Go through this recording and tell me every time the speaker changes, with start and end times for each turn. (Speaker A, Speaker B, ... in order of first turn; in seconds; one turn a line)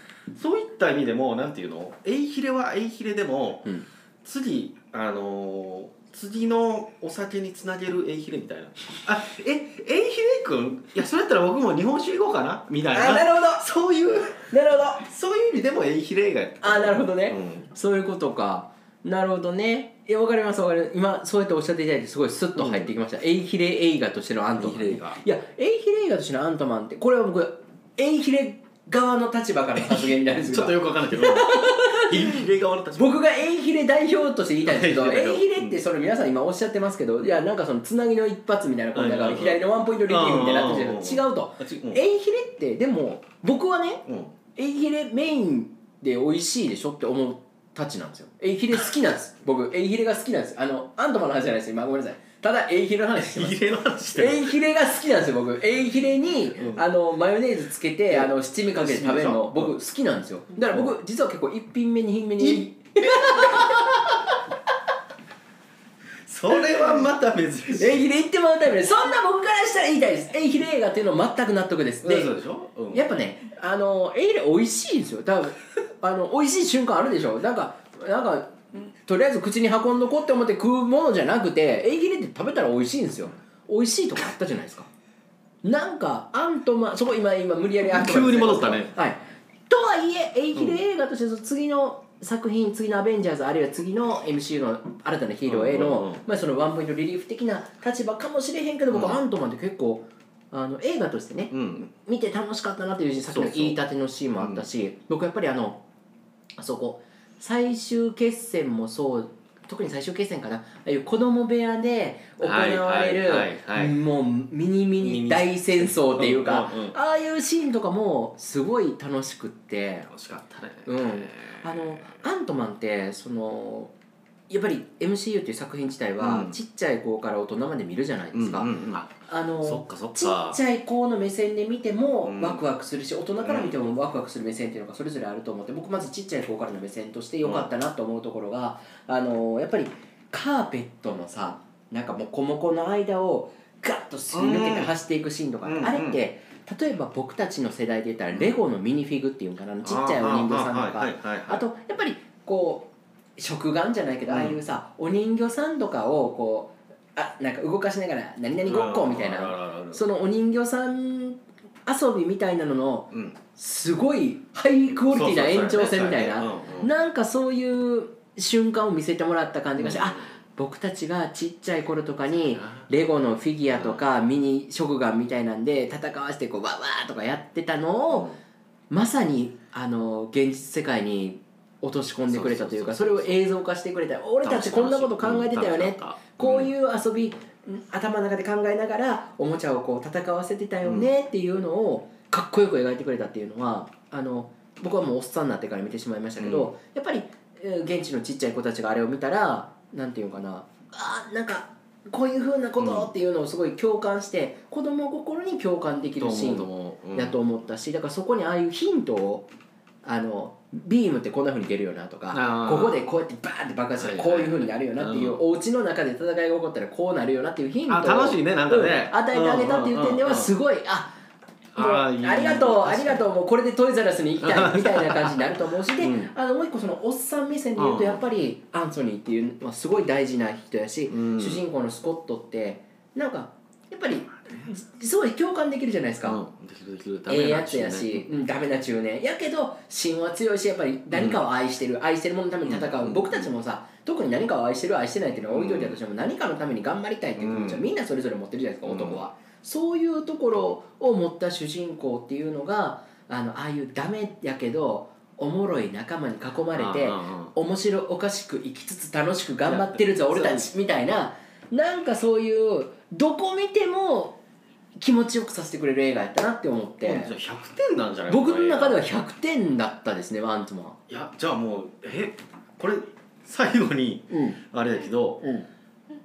Speaker A: 0.3-14.5
Speaker B: 12.9-13.6
Speaker B: 14.5-15.1
Speaker A: 15.0-17.7
Speaker B: 16.6-32.4
Speaker A: 22.5-22.9
Speaker A: 24.6-25.2
Speaker A: 29.8-33.2
Speaker B: 32.9-63.9
Speaker A: 34.6-35.9
Speaker A: 38.9-42.0
Speaker A: 44.1-44.3
Speaker A: 53.1-54.5
Speaker A: 56.6-56.8
Speaker A: 58.1-59.8
Speaker A: 60.7-60.9
Speaker A: 62.4-63.8
Speaker A: 66.2-68.0
Speaker B: 67.7-72.3
Speaker A: 72.0-73.1
Speaker B: 72.9-84.9
Speaker B: 85.6-105.8
Speaker A: 87.9-89.0
Speaker A: 95.5-96.2
Speaker A: 98.9-99.2
Speaker A: 101.5-101.9
Speaker A: 103.2-103.8
Speaker A: 104.3-104.7
Speaker B: 106.6-120.1
Speaker A: 112.4-114.0
Speaker A: 115.0-117.0
Speaker A: 120.1-122.1
Speaker B: 120.9-123.9
Speaker B: 124.5-178.3
Speaker A: 126.2-126.6
Speaker A: 128.3-130.6
Speaker A: 132.2-132.6
Speaker A: 133.4-133.8
Speaker A: 137.4-137.7
Speaker A: 144.3-144.9
Speaker A: 145.6-146.2
Speaker A: 149.8-151.6
Speaker A: 154.2-154.6
Speaker A: 158.7-160.0
Speaker A: 163.1-163.4
Speaker A: 165.1-166.9
Speaker A: 169.8-170.3
Speaker A: 172.4-172.9
Speaker A: 173.8-174.0
Speaker A: 178.1-178.4
Speaker B: 178.9-209.5
Speaker A: 182.3-183.4
Speaker A: 184.4-186.7
Speaker A: 190.8-191.1
Speaker A: 196.4-196.7
Speaker A: 202.8-203.1
Speaker A: 206.2-207.4
Speaker B: 210.0-221.2
Speaker A: 212.3-213.1
Speaker A: 214.0-215.4
Speaker A: 217.9-220.5
Speaker A: 221.7-223.2
Speaker B: 221.8-236.4
Speaker A: 224.4-225.5
Speaker A: 226.0-226.3
Speaker A: 227.8-228.2
Speaker A: 231.1-231.6
Speaker A: 236.2-238.3
Speaker B: 237.2-264.4
Speaker A: 241.1-241.4
Speaker A: 242.6-243.5
Speaker A: 245.5-246.0
Speaker A: 247.4-247.9
Speaker A: 248.9-249.2
Speaker A: 256.7-257.5
Speaker A: 259.6-260.7
Speaker B: 265.0-267.3
Speaker A: 267.0-269.1
Speaker B: 268.3-271.0
Speaker A: 271.1-275.5
Speaker B: 274.3-274.6